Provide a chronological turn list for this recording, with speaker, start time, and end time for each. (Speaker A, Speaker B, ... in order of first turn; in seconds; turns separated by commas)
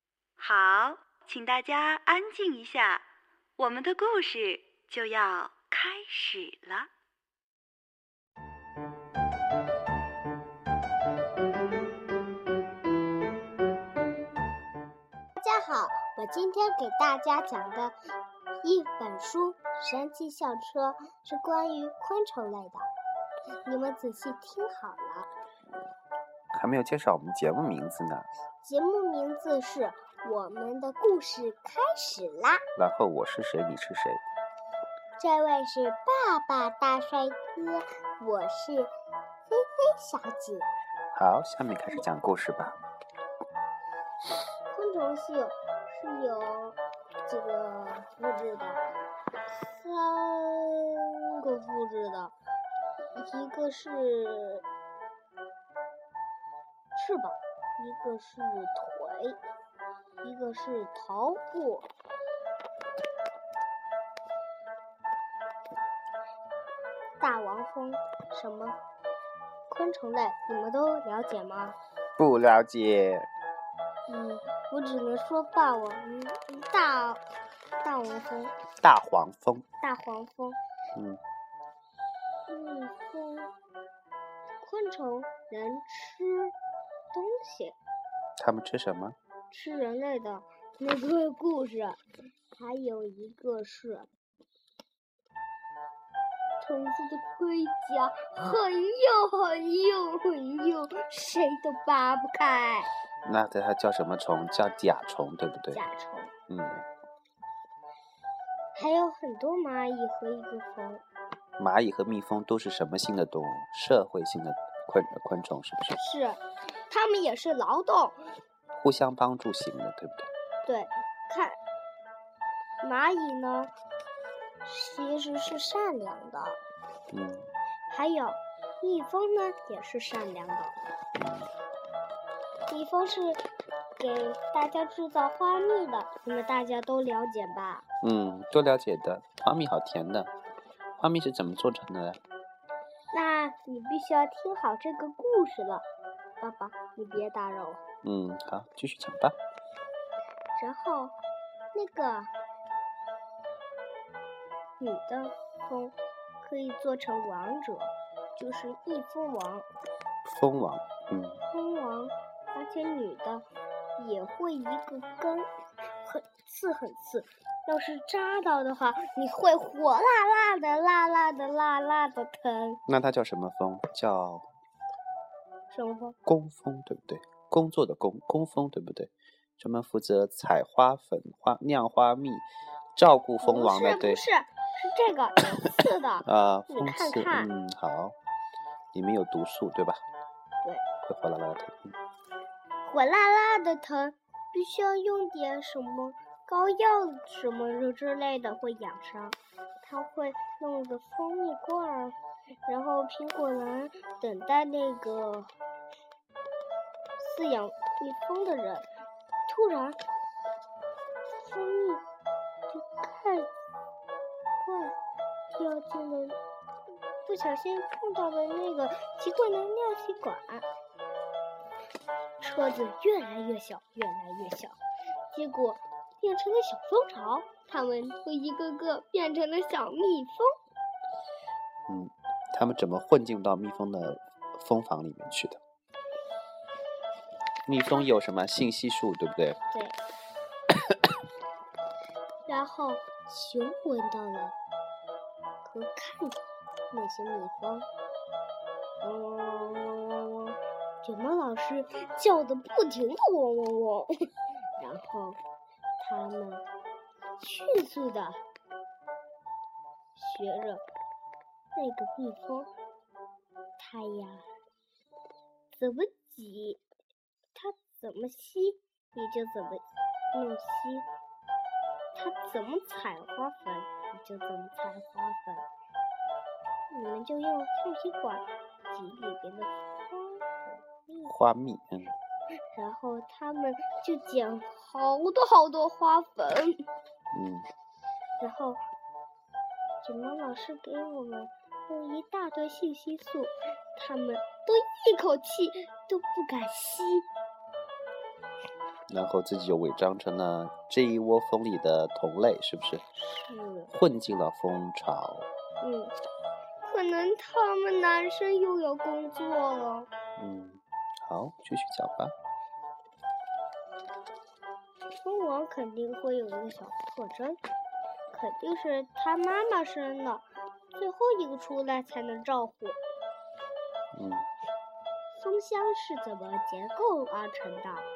Speaker A: 0.4-3.0, Speaker A: 3.6-6.9, Speaker B: 15.3-17.9, Speaker B: 18.6-22.9, Speaker B: 23.6-25.3, Speaker C: 26.5-28.3, Speaker B: 28.6-32.6, Speaker C: 32.8-34.2, Speaker B: 35.2-38.9, Speaker B: 39.5-40.7, Speaker C: 41.1-42.8, Speaker B: 44.7-48.8, Speaker B: 49.6-52.3, Speaker B: 53.1-54.6, Speaker B: 56.9-59.4, Speaker B: 60.2-61.9, Speaker B: 67.2-68.8, Speaker B: 69.7-71.8, Speaker C: 72.2-73.3, Speaker B: 74.1-77.2, Speaker B: 77.8-78.5, Speaker C: 78.8-79.6, Speaker B: 79.8-80.6, Speaker C: 80.9-81.2, Speaker B: 82.5-83.5, Speaker B: 84.6-86.5, Speaker B: 87.1-87.8, Speaker C: 88.4-89.2, Speaker B: 89.5-92.0, Speaker B: 92.5-94.1, Speaker B: 96.6-102.9, Speaker C: 103.2-105.8, Speaker B: 105.7-106.3, Speaker C: 106.5-106.8, Speaker B: 108.7-111.0, Speaker C: 111.6-116.0, Speaker B: 116.0-118.2, Speaker C: 118.7-120.3, Speaker B: 120.6-121.6, Speaker B: 122.8-123.7, Speaker B: 124.6-126.6, Speaker C: 127.1-127.5, Speaker B: 127.9-130.8, Speaker C: 131.2-131.5, Speaker B: 132.7-133.4, Speaker B: 134.0-137.8, Speaker C: 138.0-140.3, Speaker C: 141.0-142.2, Speaker B: 143.1-145.8, Speaker B: 146.4-147.8, Speaker C: 148.0-149.3, Speaker B: 150.6-151.1, Speaker B: 151.7-152.3, Speaker B: 154.8-159.7, Speaker C: 160.2-161.4, Speaker B: 161.5-165.5, Speaker B: 166.0-172.8, Speaker C: 172.9-174.4, Speaker B: 175.7-176.2, Speaker C: 176.2-184.2, Speaker B: 183.4-187.5, Speaker C: 186.2-188.2, Speaker C: 188.9-190.0, Speaker C: 191.0-191.9, Speaker B: 192.8-205.5, Speaker B: 207.2-208.9, Speaker B: 209.5-210.0, Speaker B: 211.4-212.0, Speaker B: 212.7-213.5, Speaker B: 214.6-215.0, Speaker B: 215.5-216.4, Speaker B: 217.2-220.7, Speaker B: 222.4-224.8, Speaker B: 225.3-230.5, Speaker C: 231.9-235.6, Speaker C: 237.7-239.6, Speaker B: 239.7-239.9, Speaker B: 242.4-244.6, Speaker B: 245.6-247.9, Speaker B: 249.0-255.4, Speaker B: 256.0-256.6, Speaker B: 257.4-258.4, Speaker B: 260.1-260.8, Speaker B: 261.7-262.7, Speaker B: 263.8-264.4, Speaker B: 265.8-266.8, Speaker B: 267.5-271.1, Speaker B: 272.1-275.6, Speaker B: 276.9-281.2, Speaker C: 281.2-282.1, Speaker B: 282.7-286.8, Speaker C: 287.3-287.7, Speaker B: 288.4-288.8, Speaker B: 290.0-297.3, Speaker C: 299.1-303.0, Speaker B: 303.2-303.9, Speaker C: 303.9-305.5, Speaker B: 305.8-306.1, Speaker B: 306.8-310.1, Speaker C: 310.4-312.3, Speaker B: 315.1-317.6, Speaker B: 318.3-323.0, Speaker C: 324.1-324.5, Speaker B: 325.3-328.1